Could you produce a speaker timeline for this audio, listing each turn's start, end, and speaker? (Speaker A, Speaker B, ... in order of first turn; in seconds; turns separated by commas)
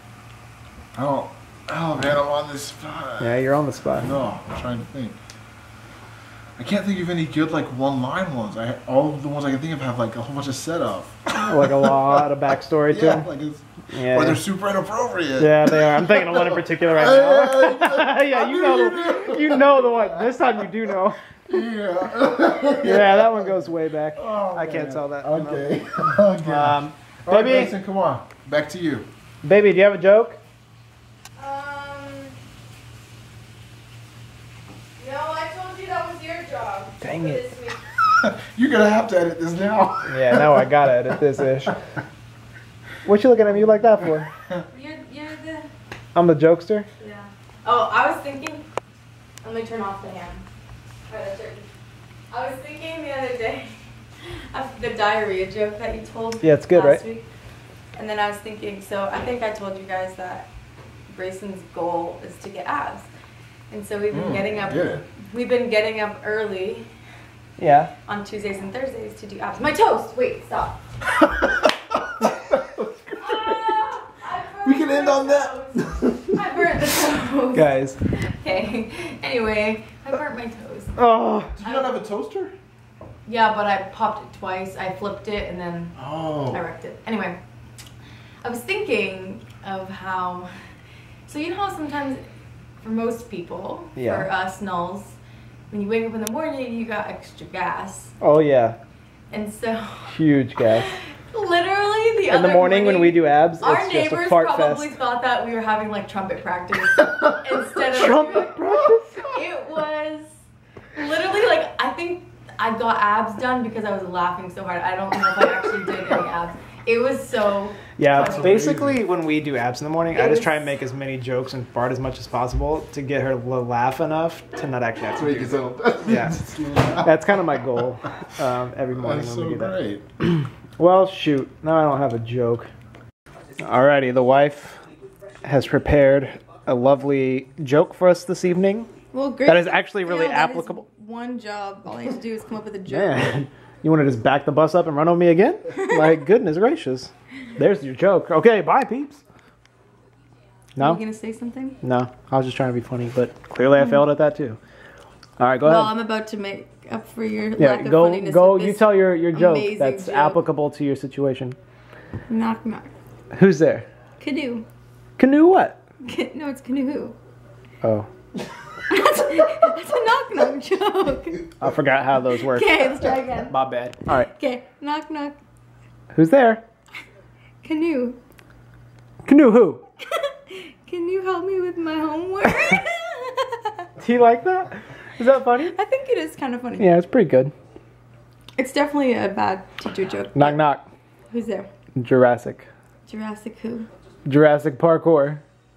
Speaker A: 0.9-3.4, Speaker B: 3.2-4.2, Speaker A: 4.0-5.2, Speaker A: 6.6-12.3, Speaker B: 11.4-13.3, Speaker A: 12.9-20.8, Speaker B: 13.9-14.4, Speaker B: 15.4-21.2, Speaker A: 21.5-23.6, Speaker B: 22.8-25.7, Speaker A: 24.2-29.1, Speaker B: 26.4-27.7, Speaker B: 29.4-30.4, Speaker C: 31.4-32.4, Speaker C: 35.0-37.8, Speaker B: 37.0-37.4, Speaker A: 38.2-41.2, Speaker B: 40.1-41.8, Speaker B: 43.0-44.3, Speaker C: 44.7-45.7, Speaker B: 46.1-46.9, Speaker C: 47.0-48.6, Speaker C: 49.4-50.4, Speaker C: 51.1-51.7, Speaker C: 52.3-57.3, Speaker B: 56.4-57.0, Speaker C: 58.0-60.5, Speaker C: 61.1-63.1, Speaker C: 63.7-66.9, Speaker A: 64.1-65.0, Speaker B: 67.6-67.9, Speaker C: 68.1-70.8, Speaker A: 71.2-73.7, Speaker C: 73.2-81.0, Speaker A: 74.6-76.8, Speaker B: 77.5-78.0, Speaker B: 81.0-81.5, Speaker A: 81.6-82.5, Speaker C: 81.6-82.0, Speaker C: 83.3-86.0, Speaker A: 86.0-86.6, Speaker C: 86.5-87.4, Speaker C: 88.4-90.5, Speaker C: 91.3-92.2, Speaker C: 92.8-95.2, Speaker B: 94.0-94.3, Speaker C: 95.7-98.1, Speaker B: 98.2-98.8, Speaker C: 99.3-108.6, Speaker B: 100.1-100.9, Speaker B: 102.3-105.0, Speaker B: 107.9-109.3, Speaker C: 109.2-110.3, Speaker C: 111.0-118.8, Speaker B: 118.0-126.4, Speaker A: 118.2-119.0, Speaker C: 120.1-120.7, Speaker A: 125.2-127.1, Speaker B: 127.0-132.7, Speaker A: 128.9-130.0, Speaker B: 133.6-134.8, Speaker B: 135.4-138.9, Speaker C: 139.1-143.4, Speaker B: 139.5-140.8, Speaker B: 142.9-149.2, Speaker C: 145.7-146.2, Speaker C: 150.8-151.8, Speaker B: 151.8-154.6, Speaker C: 153.8-154.0, Speaker B: 155.4-155.9, Speaker C: 155.6-160.4, Speaker B: 157.6-161.6, Speaker C: 162.3-162.9, Speaker B: 163.3-163.9, Speaker C: 164.2-164.7, Speaker B: 165.2-165.8, Speaker C: 166.0-167.2, Speaker B: 167.8-168.1, Speaker C: 168.9-171.5, Speaker B: 171.6-172.9, Speaker C: 172.3-173.6, Speaker B: 173.5-174.3, Speaker C: 174.3-175.4, Speaker B: 176.1-176.6, Speaker C: 177.6-178.2, Speaker B: 179.2-179.8, Speaker C: 180.1-183.8, Speaker B: 184.0-185.7, Speaker C: 185.5-186.9, Speaker B: 186.8-187.5, Speaker C: 188.6-190.6, Speaker B: 190.3-190.9, Speaker C: 191.3-191.7, Speaker B: 192.0-192.7, Speaker C: 193.1-193.9, Speaker B: 194.3-195.4